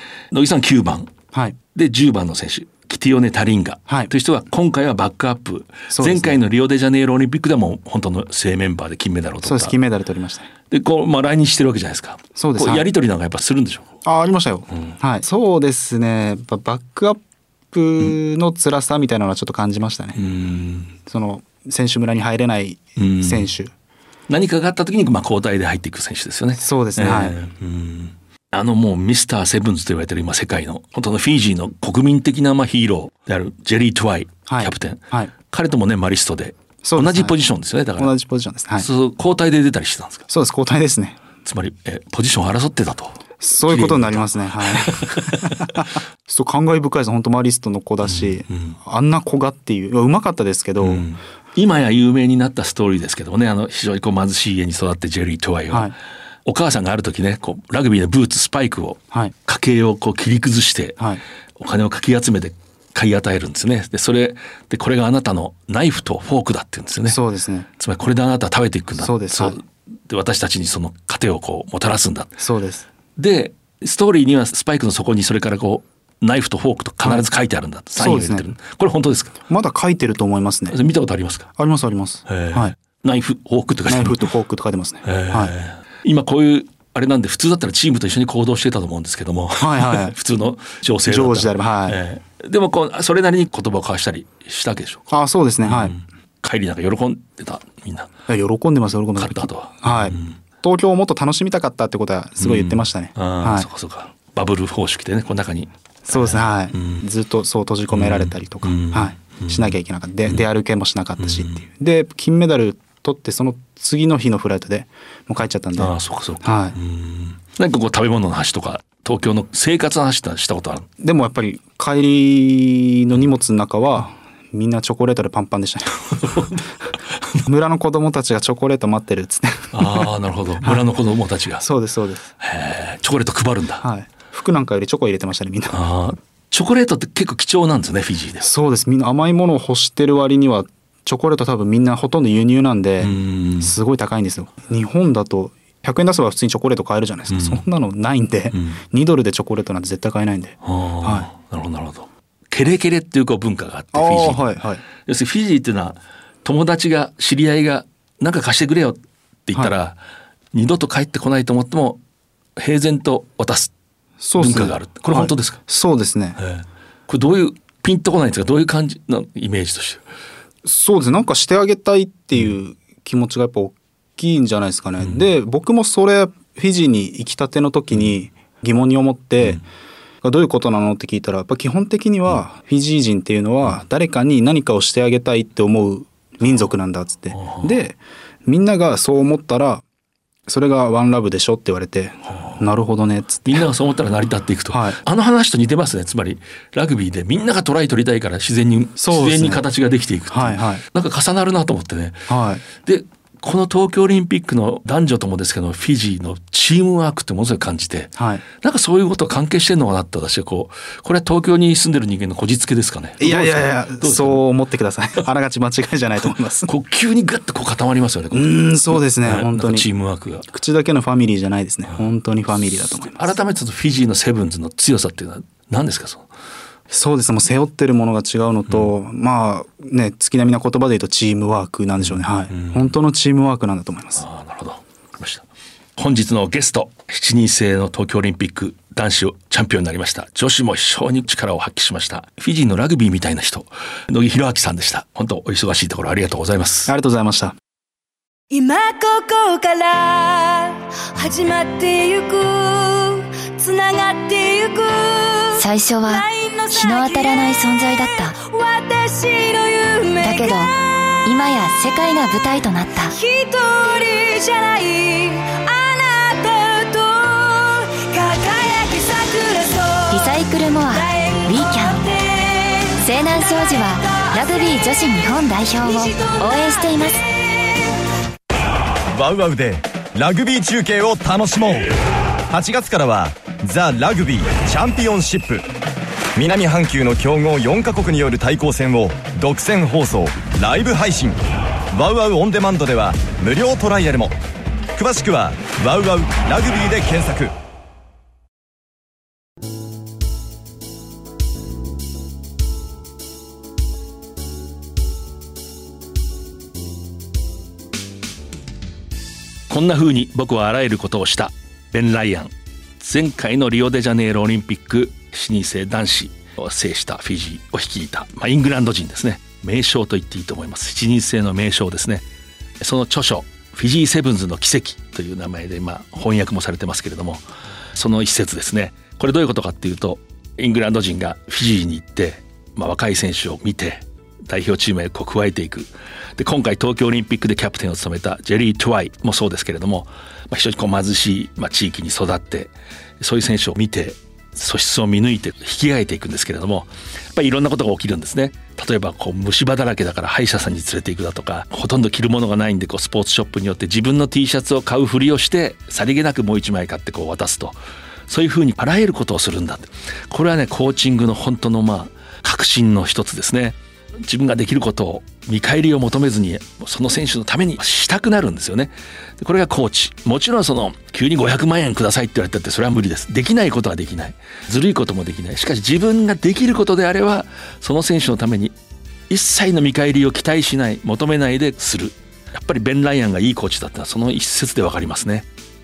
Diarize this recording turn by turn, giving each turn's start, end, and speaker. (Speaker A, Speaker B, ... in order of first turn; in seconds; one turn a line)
Speaker A: 0.3-1.1
Speaker B: 1.3-1.6
Speaker A: 1.7-9.8
Speaker B: 5.9-6.4
Speaker B: 9.4-10.5
Speaker A: 10.7-13.9
Speaker B: 12.4-12.9
Speaker B: 14.1-17.2
Speaker B: 17.7-20.3
Speaker A: 20.2-20.9
Speaker B: 20.9-23.7
Speaker A: 23.0-23.5
Speaker A: 24.3-38.1
Speaker B: 26.6-27.4
Speaker B: 34.5-35.3
Speaker B: 36.8-37.3
Speaker B: 38.0-38.9
Speaker A: 38.8-40.3
Speaker B: 40.3-41.2
Speaker A: 41.5-45.9
Speaker B: 43.4-51.0
Speaker A: 48.0-48.8
Speaker A: 50.8-55.9
Speaker A: 56.5-61.0
Speaker A: 61.6-67.2
Speaker B: 67.1-67.7
Speaker A: 67.8-72.4
Speaker B: 69.0-69.6
Speaker B: 72.4-72.8
Speaker A: 73.2-79.3
Speaker B: 78.0-78.5
Speaker B: 79.5-80.8
Speaker A: 80.7-81.5
Speaker B: 81.6-82.8
Speaker A: 82.3-84.2
Speaker B: 83.9-85.5
Speaker A: 85.0-95.0
Speaker B: 89.6-90.2
Speaker B: 91.1-92.0
Speaker B: 95.1-96.0
Speaker A: 95.6-98.1
Speaker B: 98.3-103.7
Speaker A: 99.2-100.4
Speaker A: 102.4-107.0
Speaker B: 106.1-116.8
Speaker A: 107.9-110.5
Speaker A: 111.2-111.6
Speaker A: 115.8-120.9
Speaker B: 121.0-126.0
Speaker A: 126.1-126.7
Speaker B: 127.5-130.1
Speaker A: 129.7-131.7
Speaker B: 131.6-132.3
Speaker A: 132.4-133.8
Speaker B: 133.8-135.8
Speaker A: 135.7-138.5
Speaker B: 138.4-151.3
Speaker A: 143.0-143.7
Speaker A: 147.3-147.6
Speaker A: 148.5-148.8
Speaker A: 150.6-160.0
Speaker B: 153.9-154.8
Speaker A: 160.5-162.0
Speaker A: 162.6-163.7
Speaker B: 164.2-166.4
Speaker A: 164.4-165.6
Speaker A: 166.4-170.0
Speaker B: 170.6-179.6
Speaker A: 175.0-175.2
Speaker B: 180.2-189.8
Speaker A: 187.3-187.8
Speaker B: 190.5-193.7
Speaker A: 192.3-192.6
Speaker A: 193.4-214.4
Speaker B: 194.7-195.0
Speaker B: 199.0-199.6
Speaker B: 200.3-200.8
Speaker B: 202.3-202.6
Speaker B: 208.2-208.4
Speaker B: 213.2-216.7
Speaker A: 216.7-220.5
Speaker B: 218.3-219.9
Speaker B: 220.5-223.3
Speaker A: 223.1-226.3
Speaker B: 226.9-234.2
Speaker A: 232.0-232.9
Speaker A: 234.2-235.5
Speaker A: 236.0-246.9
Speaker B: 246.9-247.6
Speaker C: 248.5-257.5
Speaker D: 255.6-258.4
Speaker C: 258.4-260.7
Speaker D: 260.2-260.7
Speaker D: 261.2-263.2
Speaker C: 263.1-270.3
Speaker D: 270.1-272.1
Speaker C: 270.9-273.0
Speaker D: 273.0-277.2
Speaker C: 274.0-274.8
Speaker C: 275.8-277.8
Speaker E: 279.1-281.9
Speaker E: 282.5-285.6
Speaker E: 286.4-291.4
Speaker E: 291.9-294.4
Speaker E: 294.9-297.5
Speaker A: 309.7-322.2
Speaker A: 322.8-327.4
Speaker A: 327.9-357.8
Speaker A: 358.3-378.8
Speaker A: 379.3-385.5